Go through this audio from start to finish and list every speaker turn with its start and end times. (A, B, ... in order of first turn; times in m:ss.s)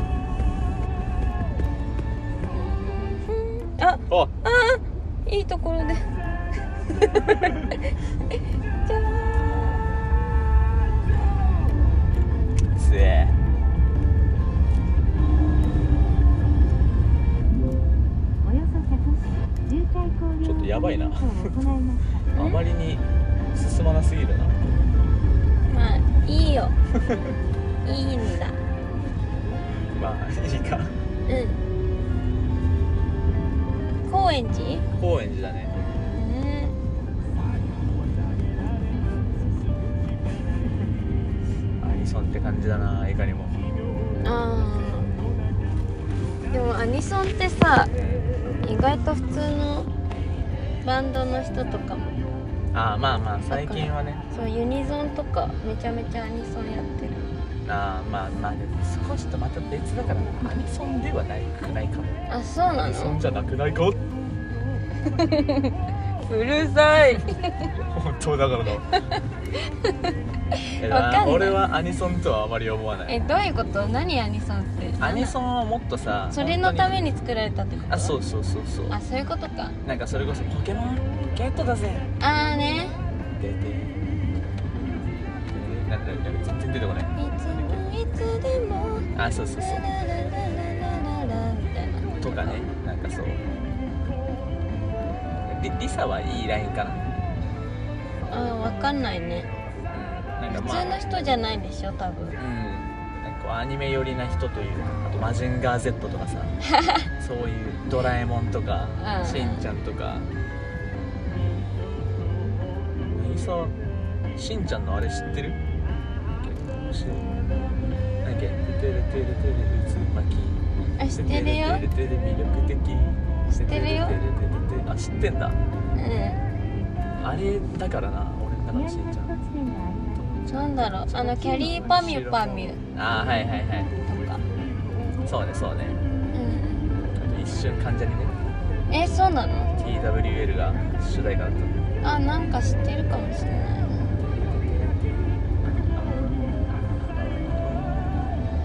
0:02.5-0:06.0 A
0:07.0-0:07.9 A
0:08.8-0:09.8 A
0:12.7-0:13.4 B
0:18.4-0:22.1 C
0:20.4-0:21.5 B
0:22.3-0:24.6 B
0:22.4-0:22.6 A
0:25.7-0:26.8 A
0:27.8-0:28.6 A
0:29.9-0:30.9 B
0:31.2-0:31.6 A
0:34.0-0:34.8 A
0:35.0-0:35.8 B
0:36.1-0:36.8 A
0:41.8-0:43.6 B
0:44.2-0:45.1 A
0:46.5-0:47.9 A
0:48.0-0:48.2 B
0:48.6-0:49.9 A
0:50.8-0:52.2 A
0:52.7-0:54.2 B
0:53.5-0:57.3 A
0:57.6-1:02.2 B
1:02.3-1:03.2 A
1:02.8-1:04.0 B
1:05.1-1:07.5 A
1:07.9-1:08.9 B
1:09.6-1:10.0 A
1:10.7-1:11.6 A
1:10.8-1:13.2 B
1:13.1-1:15.3 A
1:15.0-1:17.0 B
1:16.3-1:18.2 A
1:17.9-1:19.0 B
1:18.9-1:19.8 A
1:19.8-1:22.1 B
1:22.2-1:23.0 A
1:23.3-1:24.0 B
1:25.5-1:27.8 B
1:27.2-1:32.6 A
1:29.1-1:29.8 B
1:32.2-1:33.4 B
1:35.4-1:37.0 B
1:38.2-1:39.5 A
1:39.9-1:41.3 B
1:40.5-1:42.4 A
1:42.4-1:46.5 B
1:47.2-1:50.3 B
1:49.0-1:49.6 A
1:53.1-1:53.7 B
1:54.3-1:55.6 B
1:56.4-1:57.3 B
1:58.2-2:05.6 B
2:01.0-2:01.8 A
2:03.5-2:04.2 A
2:05.9-2:06.4 A
2:07.2-2:09.3 B
2:08.7-2:10.2 C
2:10.2-2:13.9 B
2:10.5-2:12.8 A
2:14.0-2:14.4 A
2:15.2-2:16.0 B
2:16.3-2:16.9 A
2:17.1-2:18.3 B
2:18.9-2:19.7 A
2:19.8-2:21.8 B
2:22.0-2:24.0 A
2:24.2-2:25.0 B
2:25.7-2:28.3 B